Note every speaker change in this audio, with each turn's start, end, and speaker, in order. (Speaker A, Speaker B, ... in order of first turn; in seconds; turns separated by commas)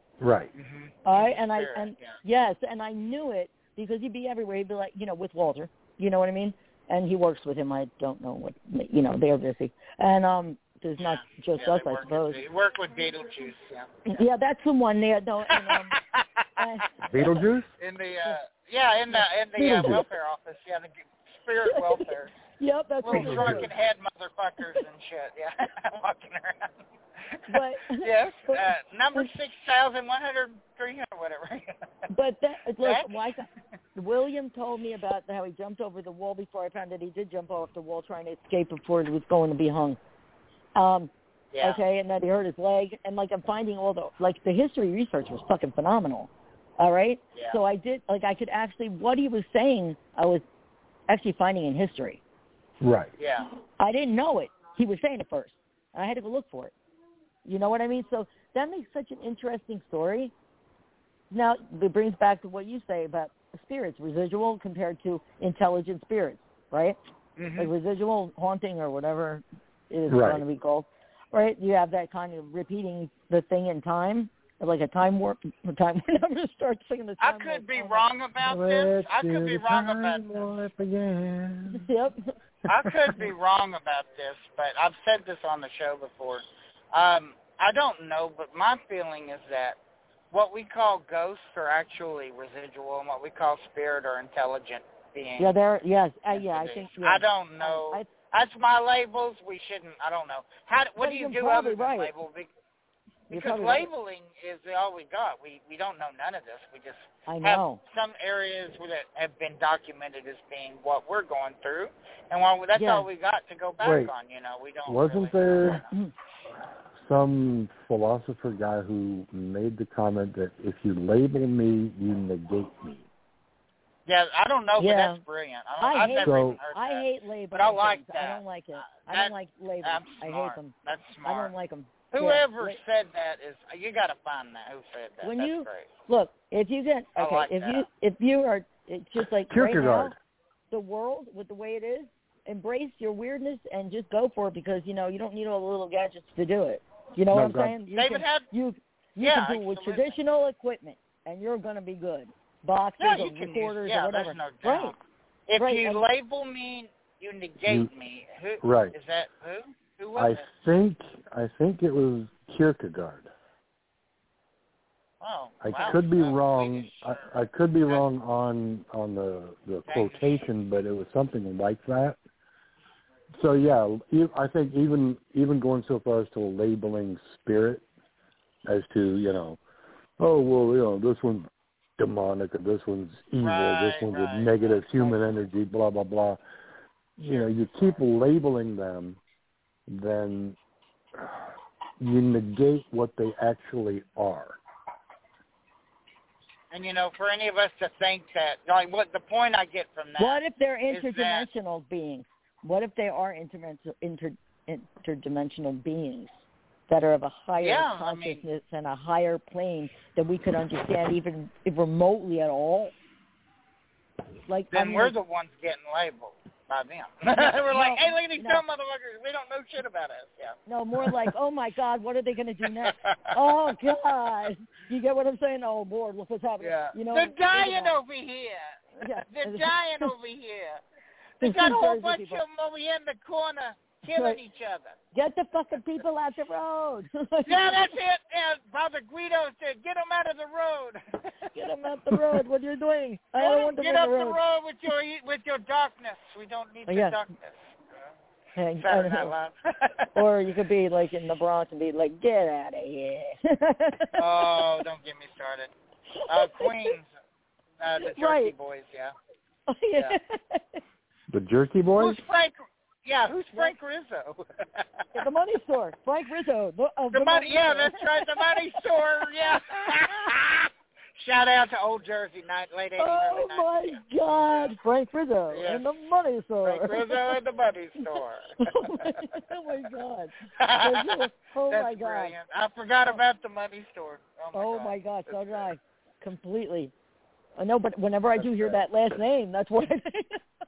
Speaker A: 0.2-0.5, Speaker B: 0.6-2.2, Speaker C: 1.1-12.4, Speaker B: 11.0-14.2, Speaker C: 14.1-16.0, Speaker B: 15.5-16.6, Speaker C: 16.6-17.4, Speaker A: 17.1-17.7, Speaker B: 17.8-22.4, Speaker A: 19.6-20.1, Speaker C: 21.6-23.7, Speaker B: 23.0-26.8, Speaker A: 23.1-23.7, Speaker B: 27.3-31.8, Speaker C: 27.5-29.3, Speaker C: 32.1-40.0, Speaker B: 32.8-33.3, Speaker C: 40.8-50.4, Speaker B: 41.5-41.8, Speaker C: 51.1-52.2, Speaker A: 52.8-53.1, Speaker B: 53.2-53.5, Speaker C: 53.8-56.7, Speaker C: 57.5-60.3, Speaker C: 61.3-67.0, Speaker B: 67.4-67.7, Speaker C: 67.6-78.1, Speaker A: 70.1-70.4, Speaker B: 77.2-80.4, Speaker A: 78.4-81.9, Speaker C: 81.7-82.3, Speaker B: 82.7-89.8, Speaker A: 82.7-83.2, Speaker B: 90.3-95.5, Speaker C: 95.4-98.1, Speaker B: 96.3-102.5, Speaker C: 101.0-102.1, Speaker B: 103.3-116.0, Speaker C: 103.3-103.9, Speaker C: 107.3-107.8, Speaker C: 112.8-113.1, Speaker A: 113.8-114.1, Speaker A: 114.9-115.8, Speaker C: 115.7-116.1, Speaker A: 117.0-123.1, Speaker B: 124.1-131.5, Speaker C: 124.8-125.2, Speaker C: 125.8-132.8, Speaker A: 126.2-126.6, Speaker B: 132.1-135.9, Speaker C: 135.2-140.2, Speaker B: 137.2-137.8, Speaker A: 139.5-140.2, Speaker C: 140.7-155.0, Speaker A: 147.3-147.8, Speaker B: 147.9-148.5, Speaker B: 149.2-150.2, Speaker B: 153.0-160.5, Speaker C: 155.6-156.0, Speaker A: 157.7-157.9, Speaker A: 158.6-158.9, Speaker A: 160.2-163.3, Speaker B: 165.2-167.2, Speaker A: 165.6-172.2, Speaker B: 169.9-170.4, Speaker A: 173.3-177.8, Speaker A: 178.7-179.6, Speaker A: 180.2-186.4, Speaker B: 183.4-185.2, Speaker A: 187.2-189.2, Speaker A: 189.9-190.6, Speaker A: 191.2-194.6, Speaker B: 196.7-201.5, Speaker C: 200.2-206.3, Speaker C: 206.9-212.9, Speaker B: 207.6-208.4, Speaker C: 214.5-215.2, Speaker B: 214.7-221.3, Speaker C: 217.3-218.6, Speaker C: 220.7-227.9, Speaker B: 222.6-223.9, Speaker B: 226.6-230.8, Speaker C: 229.0-230.1, Speaker B: 231.4-235.0, Speaker C: 231.4-232.4, Speaker C: 234.1-234.4, Speaker C: 235.1-238.0, Speaker B: 237.5-241.6, Speaker C: 241.6-244.4, Speaker B: 242.1-242.4, Speaker B: 243.4-248.1, Speaker C: 246.9-247.2, Speaker C: 248.6-249.3, Speaker B: 248.8-250.1, Speaker C: 250.2-254.8, Speaker B: 254.2-255.7, Speaker C: 256.2-256.9, Speaker B: 256.3-257.1, Speaker B: 257.8-259.1, Speaker C: 258.0-258.5, Speaker C: 259.7-260.8, Speaker A: 261.3-262.2, Speaker B: 262.0-264.9, Speaker C: 265.1-268.8, Speaker B: 267.1-274.8, Speaker C: 273.0-277.4, Speaker B: 275.5-275.9, Speaker B: 276.6-279.2, Speaker C: 278.1-282.3, Speaker B: 280.6-285.7, Speaker C: 284.5-286.9, Speaker C: 287.6-290.4, Speaker A: 288.4-288.8